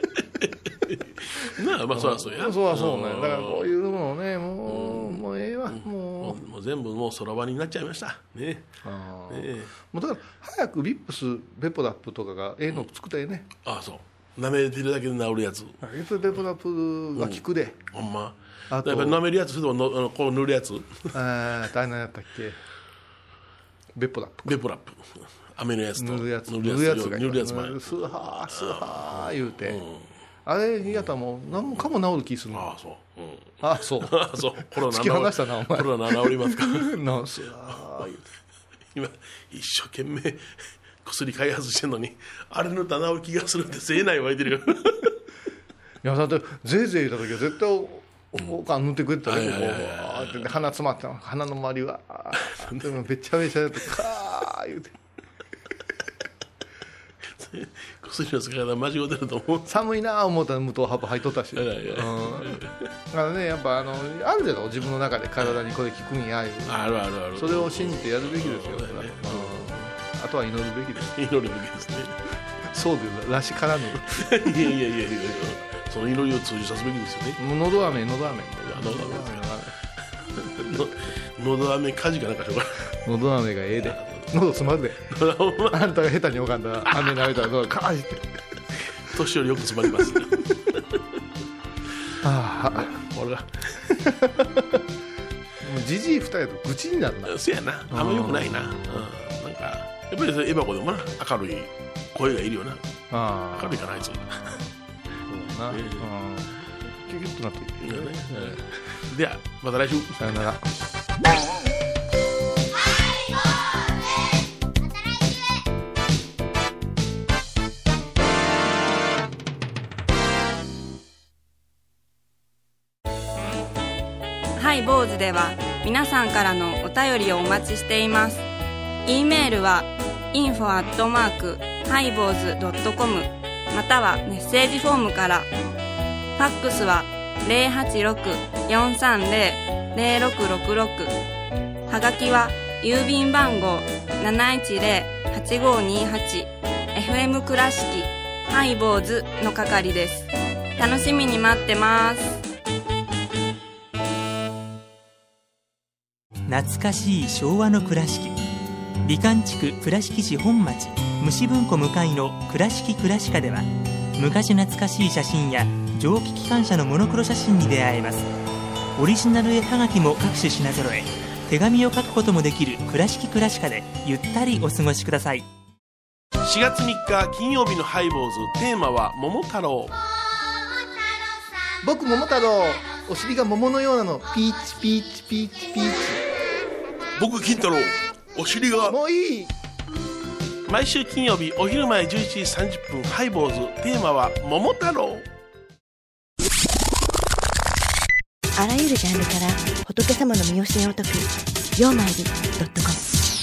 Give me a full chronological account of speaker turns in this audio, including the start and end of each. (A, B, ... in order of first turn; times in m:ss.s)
0:00.4-0:03.7 A
0:01.4-0:06.4 B
0:04.7-0:08.7 A
0:08.8-0:13.5 B
0:09.3-0:09.7 A
0:13.6-0:15.8 A
0:15.8-0:17.8 B
0:17.2-0:21.1 A
0:18.7-0:19.2 B
0:21.1-0:22.6 B
0:24.0-0:24.6 B
0:24.4-0:30.1 A
0:26.0-0:29.8 B
0:30.5-0:32.7 B
0:32.5-0:36.9 A
0:33.6-0:38.2 B
0:38.9-0:45.2 A
0:46.0-0:55.0 B
0:49.2-0:50.5 A
0:52.3-0:52.9 A
0:57.2-0:59.7 A
0:59.7-1:06.8 B
1:01.6-1:02.9 A
1:06.7-1:09.8 A
1:07.3-1:11.1 B
1:11.0-1:12.2 A
1:12.7-1:14.5 B
1:14.2-1:17.4 A
1:17.4-1:19.7 B
1:18.6-1:19.4 A
1:20.2-1:23.0 A
1:23.0-1:25.2 B
1:23.8-1:24.3 A
1:25.1-1:25.9 A
1:25.7-1:29.0 B
1:26.8-1:27.4 A
1:29.0-1:31.2 A
1:32.2-1:33.0 B
1:32.7-1:34.0 A
1:33.9-1:34.8 B
1:35.6-1:39.1 B
1:37.3-1:42.9 A
1:43.1-1:44.7 B
1:43.5-1:44.6 A
1:45.3-1:48.7 B
1:45.7-1:46.1 A
1:47.8-1:50.3 A
1:50.2-1:50.7 B
2:04.6-2:08.4 C
2:09.1-2:15.5 C
2:16.4-2:21.2 C
2:21.9-2:32.4 C
2:36.5-2:38.4 D
2:39.0-2:48.3 D
2:49.0-2:55.5 D
2:56.4-3:00.0 A
3:01.8-3:06.2 B
3:07.2-3:09.0 A
3:08.9-3:09.5 B
3:10.7-3:15.2 A
3:18.6-3:23.1 E